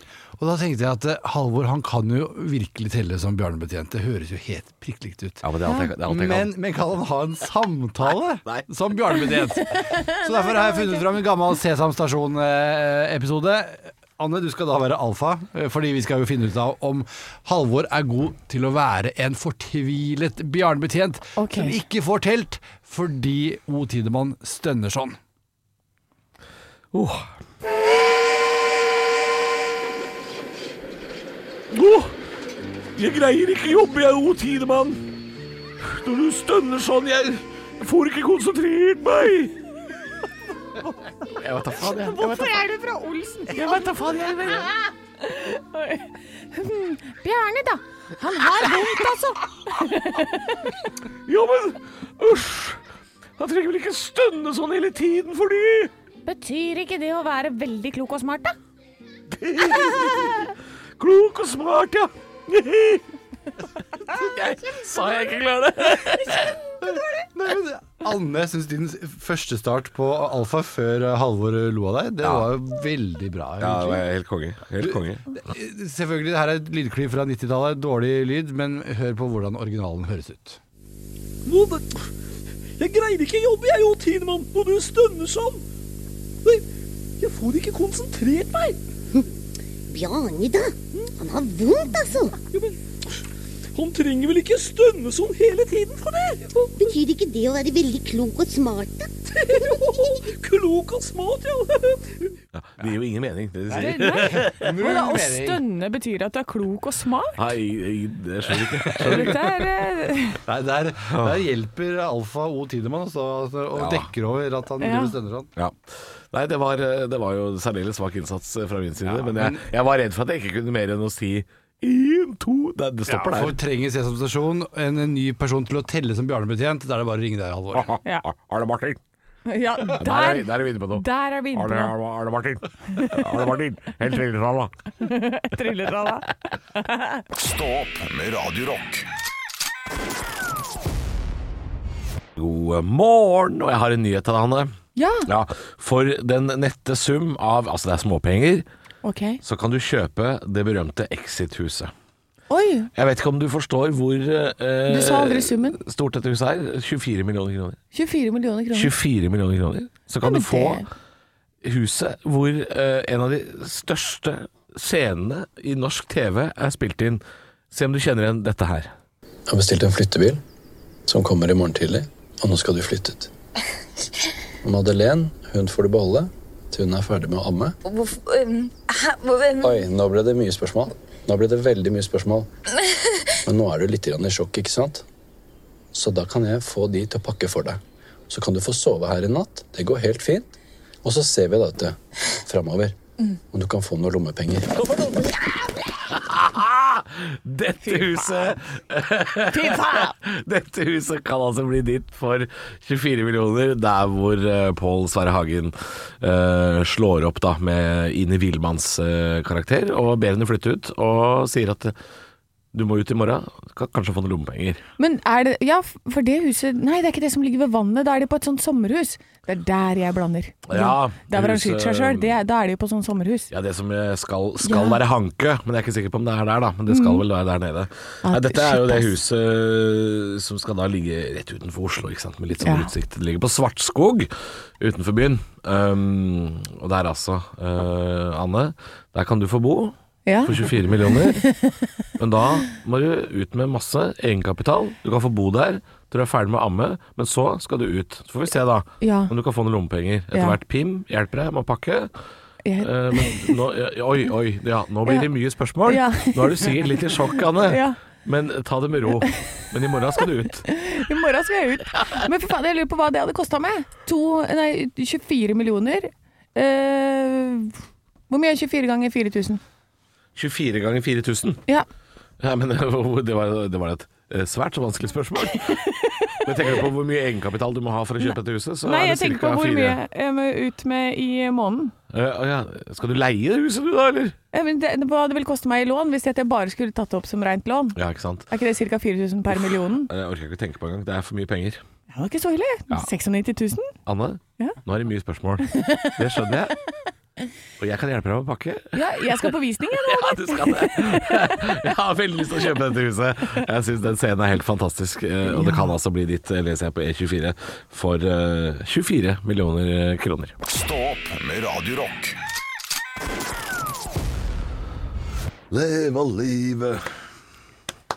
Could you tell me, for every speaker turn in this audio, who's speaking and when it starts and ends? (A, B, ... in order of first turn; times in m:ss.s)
0:00.4-0:05.4 A
0:05.4-0:06.5 B
0:06.0-0:25.2 A
0:08.0-0:08.7 B
0:10.0-0:11.0 C
0:21.4-0:21.8 C
0:26.9-0:27.3 B
0:31.7-0:32.1 B
0:32.9-0:35.1 B
0:35.8-0:39.5 B
0:41.3-0:42.6 B
0:41.8-0:50.7 C
0:43.5-0:44.7 B
0:51.2-0:52.8 B
0:53.4-0:55.9 B
0:56.2-0:58.6 C
0:59.3-1:03.0 B
1:04.1-1:06.6 B
1:07.3-1:14.0 A
1:12.2-1:12.5 B
1:13.6-1:15.3 B
1:14.8-1:20.6 A
1:21.4-1:22.0 D
1:22.8-1:25.6 D
1:27.2-1:28.8 D
1:29.9-1:32.4 E
1:33.7-1:36.8 D
1:36.8-1:39.8 E
1:39.3-1:42.3 D
1:42.5-1:44.7 B
1:43.7-1:47.4 C
1:43.9-1:45.6 A
1:47.4-1:49.6 B
1:48.9-1:49.3 A
1:49.0-1:50.4 C
1:50.4-1:55.5 A
1:51.1-1:51.4 B
1:53.7-1:54.1 B
1:54.8-1:55.1 C
1:55.6-2:03.6 B
1:59.0-1:59.6 A
2:03.0-2:07.9 A
2:07.7-2:09.0 B
2:09.4-2:11.9 C
2:09.8-2:14.7 B
2:12.9-2:13.2 C
2:15.0-2:17.2 C
2:17.3-2:19.0 F
2:22.4-2:24.7 B
2:25.0-2:25.3 C
2:25.2-2:28.6 B
2:29.0-2:29.4 C
2:29.4-2:31.9 B
2:32.5-2:32.9 C
2:32.9-2:37.8 B
2:34.9-2:35.8 C
2:37.9-2:38.9 C
2:38.7-2:40.8 B
2:40.2-2:40.8 C
2:41.6-2:48.9 B
2:49.5-2:50.4 G
2:51.1-2:53.3 G
2:54.6-2:57.8 G
2:57.8-2:59.9 H
2:59.6-3:02.5 G
3:03.5-3:05.0 G
3:05.9-3:10.5 G
3:11.0-3:13.0 G
3:13.5-3:14.7 G
3:14.8-3:32.0 B
3:17.8-3:18.5 C
3:19.5-3:20.1 C
3:32.7-3:34.8 B
3:35.0-3:43.5 C
3:40.7-3:42.3 B
3:43.5-4:01.4 B
3:44.6-3:45.0 C
3:46.9-3:47.2 C
3:48.2-3:49.1 C
3:52.6-3:52.9 C
4:00.2-4:01.8 C
4:02.2-4:12.1 B
4:09.0-4:09.3 C
4:12.6-4:13.6 C
4:12.8-4:20.6 B
4:15.8-4:16.8 C
4:17.6-4:18.0 C
4:20.6-4:27.8 C
4:28.3-4:29.6 C
4:30.3-4:31.6 B
4:32.4-4:35.8 B
4:35.5-4:36.4 C
4:36.4-4:40.0 B
4:38.8-4:41.9 C
4:42.1-4:44.4 B
4:44.5-4:48.0 C
4:47.9-4:48.5 B
4:48.5-4:50.1 C
4:49.5-4:51.8 B
4:52.1-4:53.9 C
4:54.0-4:56.7 B
4:55.7-4:56.1 C
4:57.8-5:10.6 B
4:58.9-5:01.7 C
5:05.5-5:05.9 C
5:10.7-5:12.4 F
5:15.7-5:17.1 B